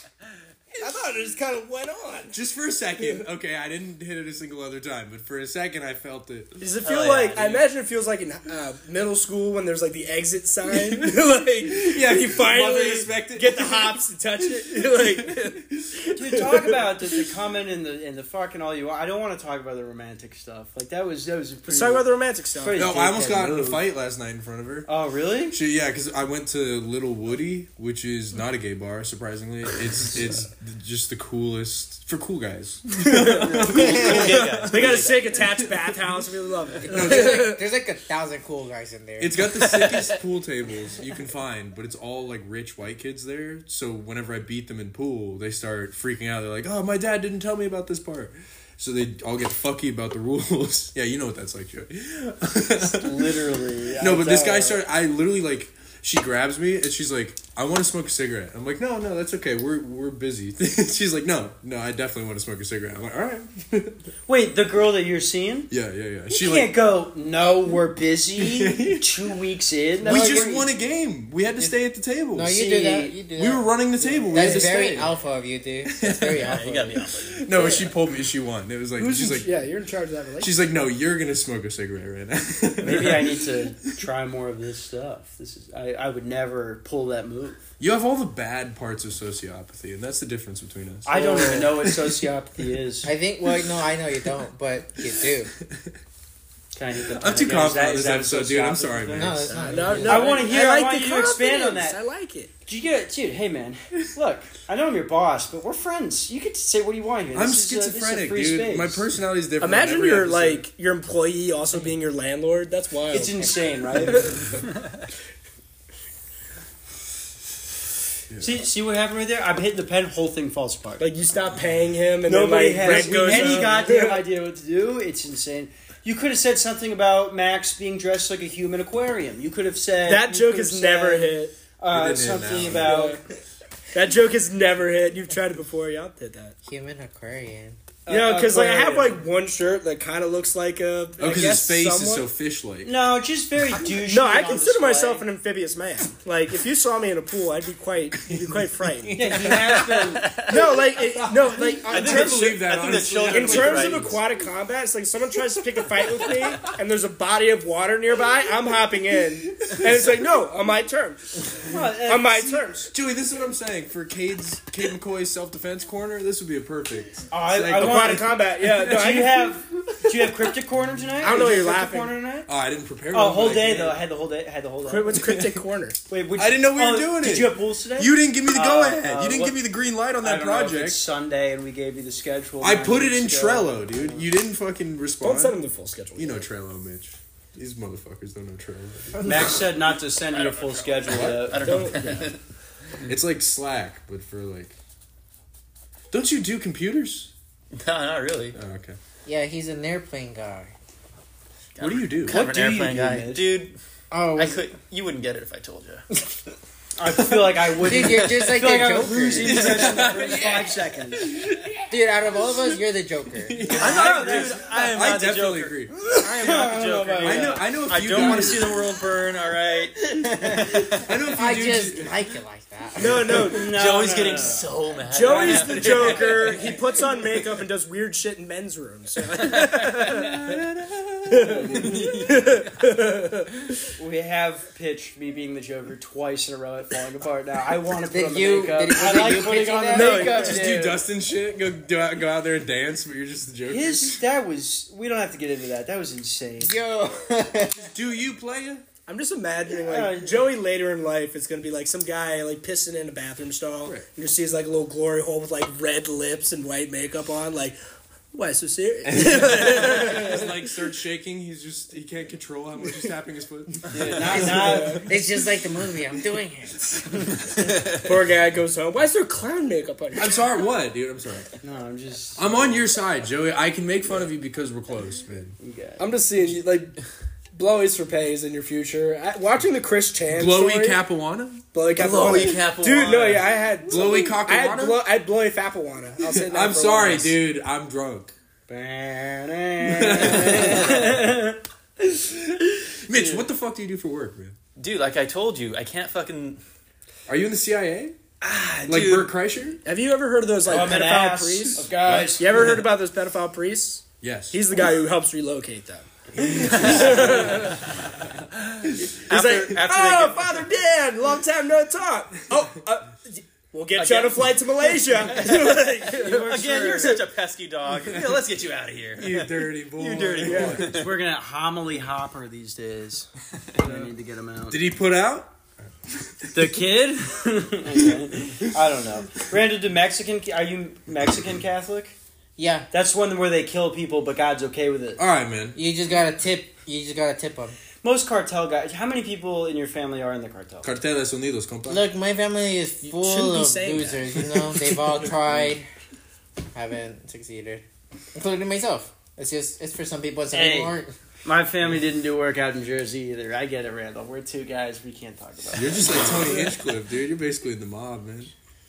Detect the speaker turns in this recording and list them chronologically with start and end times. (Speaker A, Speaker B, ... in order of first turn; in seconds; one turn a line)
Speaker A: 0.7-2.4
Speaker B: 2.3-6.6
Speaker A: 3.0-3.2
Speaker A: 6.6-16.9
Speaker C: 6.8-7.6
Speaker B: 10.7-16.0
Speaker D: 16.1-23.8
Speaker A: 21.7-22.8
Speaker B: 22.8-24.9
Speaker D: 24.9-25.6
Speaker B: 25.5-36.2
Speaker A: 33.1-33.5
Speaker D: 33.4-34.1
Speaker C: 33.7-35.2
Speaker A: 34.6-37.6
Speaker B: 36.8-37.5
Speaker E: 37.0-39.5
Speaker B: 39.2-64.0
Speaker D: 52.8-54.8
Speaker D: 64.2-65.7
Speaker B: 65.7-66.7
Speaker D: 66.3-70.7
Speaker B: 68.4-69.1
Speaker B: 70.0-72.6
Speaker E: 70.1-70.6
Speaker E: 72.3-77.0
Speaker D: 72.5-73.2
Speaker B: 73.3-75.2
Speaker B: 76.0-76.5
Speaker A: 76.4-76.7
Speaker C: 76.4-77.9
Speaker B: 77.2-79.7
Speaker A: 79.0-80.5
Speaker B: 80.4-83.9
Speaker D: 82.8-87.6
Speaker B: 87.8-92.2
Speaker D: 91.0-93.1
Speaker A: 91.3-91.6
Speaker E: 93.0-95.5
Speaker B: 93.5-93.8
Speaker B: 95.0-95.9
Speaker D: 96.7-102.0
Speaker B: 97.0-100.0
Speaker E: 99.1-100.4
Speaker A: 99.5-102.5
Speaker D: 102.7-109.0
Speaker B: 107.3-110.7
Speaker A: 109.6-114.5
Speaker D: 113.1-114.3
Speaker B: 118.3-118.6
Speaker D: 118.4-121.1
Speaker A: 121.0-124.2
Speaker D: 122.2-133.2
Speaker B: 122.8-123.9
Speaker A: 130.0-131.6
Speaker B: 131.9-133.0
Speaker A: 132.7-133.2
Speaker A: 133.9-136.5
Speaker E: 136.6-137.8
Speaker D: 138.1-139.2
Speaker A: 138.1-142.3
Speaker B: 141.2-142.9
Speaker D: 142.8-145.2
Speaker A: 144.1-149.4
Speaker B: 148.2-148.6
Speaker D: 149.2-150.4
Speaker C: 150.2-150.8
Speaker A: 150.4-152.6
Speaker B: 151.3-154.2
Speaker C: 151.9-154.1
Speaker A: 153.1-161.3
Speaker B: 159.5-160.2
Speaker D: 161.6-162.6
Speaker A: 162.1-162.9
Speaker B: 162.9-169.3
Speaker D: 167.3-168.3
Speaker A: 167.8-169.5
Speaker D: 168.9-172.5
Speaker A: 171.2-172.1
Speaker B: 172.5-174.0
Speaker D: 173.1-175.2
Speaker A: 174.8-176.0
Speaker B: 175.1-175.6
Speaker D: 176.1-179.6
Speaker B: 176.4-181.0
Speaker D: 180.2-184.2
Speaker B: 182.6-185.6
Speaker A: 185.2-186.4
Speaker B: 186.1-189.5
Speaker E: 189.2-189.5
Speaker D: 189.2-191.9
Speaker C: 190.3-192.4
Speaker B: 191.1-191.5
Speaker A: 191.6-192.3
Speaker B: 193.1-194.7
Speaker B: 196.1-197.3
Speaker C: 197.7-198.6
Speaker B: 198.5-199.0
Speaker E: 199.2-200.7
Speaker C: 201.8-203.7
Speaker B: 201.8-202.4
Speaker D: 202.3-203.6
Speaker E: 204.1-204.6
Speaker C: 204.3-206.1
Speaker D: 207.0-211.3
Speaker E: 207.8-209.6
Speaker B: 209.4-212.8
Speaker C: 209.7-210.0
Speaker E: 211.9-213.9
Speaker B: 213.4-215.9
Speaker D: 213.7-215.0
Speaker C: 213.8-221.0
Speaker D: 216.1-218.4
Speaker B: 217.2-218.9
Speaker E: 220.2-220.8
Speaker B: 220.9-222.2
Speaker E: 221.3-223.5
Speaker A: 223.0-223.8
Speaker B: 223.0-223.5
Speaker D: 223.5-224.7
Speaker C: 223.7-226.8
Speaker A: 225.1-230.4
Speaker D: 225.2-226.8
Speaker C: 229.4-230.3
Speaker B: 230.2-232.2
Speaker A: 231.3-233.5
Speaker C: 231.8-232.7
Speaker D: 234.0-241.0
Speaker E: 238.1-240.7
Speaker A: 239.9-240.6
Speaker B: 240.2-244.2
Speaker D: 243.7-246.8
Speaker E: 246.6-247.9
Speaker B: 247.9-248.8
Speaker A: 249.1-257.8
Speaker D: 249.8-250.4
Speaker A: 258.3-260.7
Speaker B: 259.0-264.6
Speaker D: 263.9-265.1
Speaker A: 264.4-265.1
Speaker E: 264.9-267.3
Speaker A: 267.9-270.4
Speaker B: 270.1-271.5
Speaker D: 271.6-272.9
Speaker B: 272.4-275.6
Speaker D: 275.6-276.1
Speaker A: 276.0-277.0
Speaker A: 277.5-281.0
Speaker B: 280.3-281.6
Speaker A: 281.7-287.4
Speaker C: 282.0-283.6
Speaker B: 283.8-285.0
Speaker B: 286.2-288.3
Speaker D: 288.7-291.6
Speaker B: 289.8-291.2
Speaker B: 292.9-294.5
Speaker D: 293.1-293.4
Speaker C: 294.8-296.6
Speaker B: 297.3-298.1
Speaker D: 298.4-299.3
Speaker B: 298.9-299.8
Speaker C: 298.9-299.2
Speaker A: 299.8-307.9
Speaker D: 300.6-302.8
Speaker B: 302.0-302.6
Speaker B: 304.2-304.7
Speaker B: 306.4-307.6
Speaker C: 306.6-307.9
Speaker B: 308.9-309.1
Speaker C: 309.3-310.6
Speaker A: 309.3-316.6
Speaker C: 313.9-314.6
Speaker C: 315.2-321.1
Speaker D: 316.1-317.2
Speaker B: 318.1-318.4
Speaker B: 319.2-321.1
Speaker A: 320.4-320.9
Speaker D: 320.8-324.8
Speaker B: 324.7-325.5
Speaker B: 326.1-326.8
Speaker D: 326.5-332.1
Speaker E: 332.6-332.9
Speaker D: 332.9-335.2
Speaker B: 335.2-335.8
Speaker E: 335.7-337.8
Speaker D: 338.0-340.9
Speaker B: 340.8-342.0
Speaker E: 341.9-345.9
Speaker A: 343.0-345.0
Speaker E: 346.7-351.1
Speaker D: 350.5-356.6
Speaker B: 355.7-358.5